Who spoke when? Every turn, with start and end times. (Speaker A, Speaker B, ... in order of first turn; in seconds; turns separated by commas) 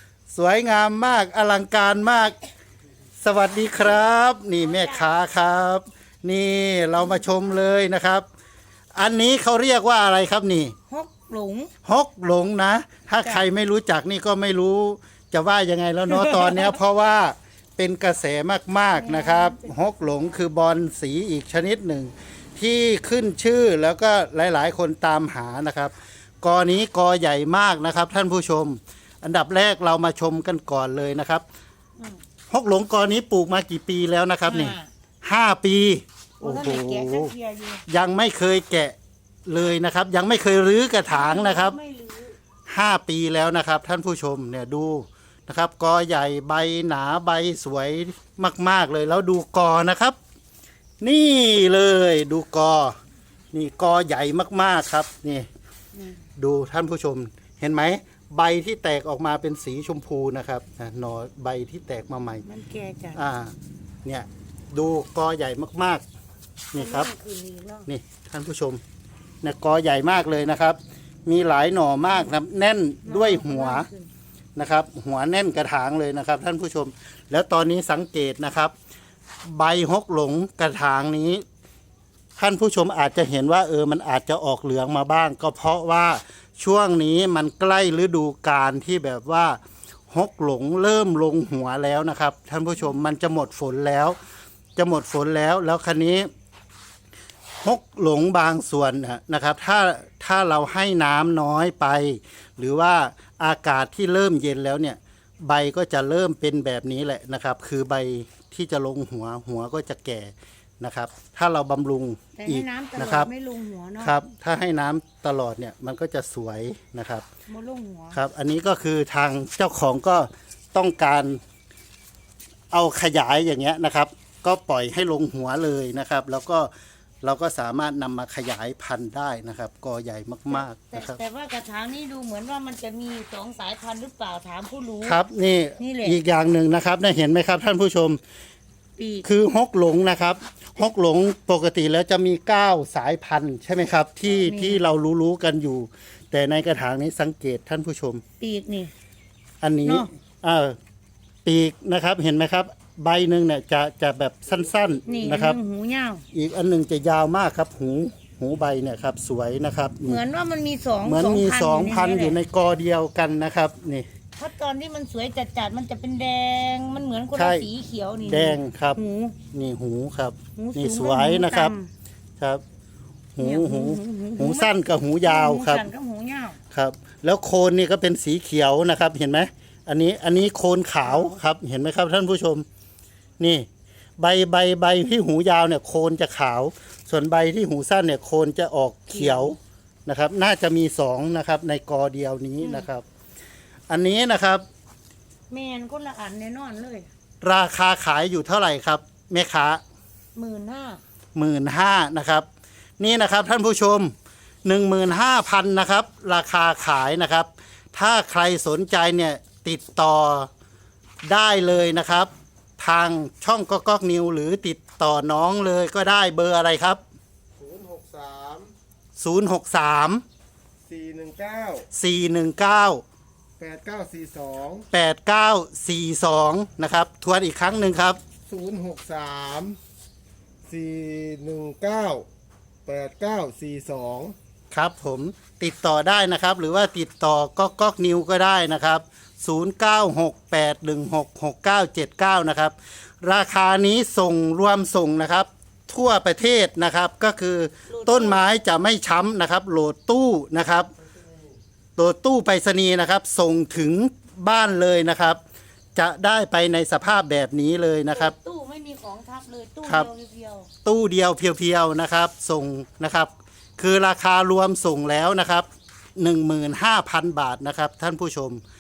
Speaker A: 0.3-2.4, Speaker A: 3.2-8.2, Speaker B: 4.6-5.1, Speaker A: 8.9-10.7, Speaker B: 10.9-11.7, Speaker A: 11.8-31.4, Speaker B: 16.2-16.7, Speaker B: 18.9-20.1, Speaker A: 32.5-37.3, Speaker B: 34.5-34.9, Speaker B: 36.4-37.8, Speaker A: 37.9-41.8, Speaker B: 41.1-42.4, Speaker A: 42.7-50.2, Speaker A: 51.0-53.0, Speaker A: 53.5-55.5, Speaker B: 55.9-56.2, Speaker A: 56.4-62.4, Speaker B: 62.4-63.2, Speaker A: 63.1-63.5, Speaker A: 64.0-66.0, Speaker A: 66.7-67.1, Speaker B: 66.7-67.9, Speaker A: 67.9-68.8, Speaker A: 69.4-73.9, Speaker B: 73.0-74.1, Speaker A: 74.5-78.7, Speaker A: 79.4-81.4, Speaker A: 82.4-89.6, Speaker A: 90.1-94.2, Speaker A: 94.8-96.3, Speaker A: 97.6-113.3, Speaker B: 112.3-114.2, Speaker A: 114.0-117.2, Speaker B: 117.5-118.2, Speaker A: 118.1-121.4, Speaker A: 122.7-126.7, Speaker A: 127.2-131.2, Speaker B: 130.5-135.2, Speaker A: 135.0-138.2, Speaker B: 135.8-136.2, Speaker B: 139.0-139.2, Speaker A: 139.2-148.2, Speaker B: 144.4-144.8, Speaker B: 148.4-148.9, Speaker A: 149.6-150.8, Speaker B: 149.8-150.1, Speaker A: 151.4-155.6, Speaker B: 155.0-156.2, Speaker A: 156.3-160.2, Speaker B: 160.0-162.4, Speaker A: 161.0-164.1, Speaker B: 164.4-169.4, Speaker A: 167.3-167.7, Speaker A: 168.2-171.7, Speaker B: 170.6-171.9, Speaker A: 173.3-175.9, Speaker B: 173.4-174.7, Speaker B: 175.2-176.6, Speaker A: 176.7-182.7, Speaker B: 181.0-181.4, Speaker A: 183.4-183.7, Speaker A: 184.2-193.0, Speaker B: 189.1-189.6, Speaker B: 192.6-192.9, Speaker A: 193.9-194.6, Speaker B: 195.5-197.1, Speaker A: 197.4-199.8, Speaker B: 200.3-201.0, Speaker A: 201.3-202.5, Speaker A: 203.0-204.1, Speaker A: 204.6-210.5, Speaker A: 211.2-217.0, Speaker C: 217.6-218.7, Speaker A: 219.2-220.2, Speaker C: 220.9-221.9, Speaker A: 221.9-223.0, Speaker C: 223.6-224.8, Speaker A: 224.9-228.2, Speaker C: 228.5-229.8, Speaker C: 230.7-232.3, Speaker C: 232.8-234.3, Speaker A: 234.7-250.9, Speaker B: 247.9-248.4, Speaker A: 252.0-255.4, Speaker A: 255.9-258.3, Speaker B: 258.1-260.7, Speaker A: 259.8-260.1, Speaker A: 260.8-268.6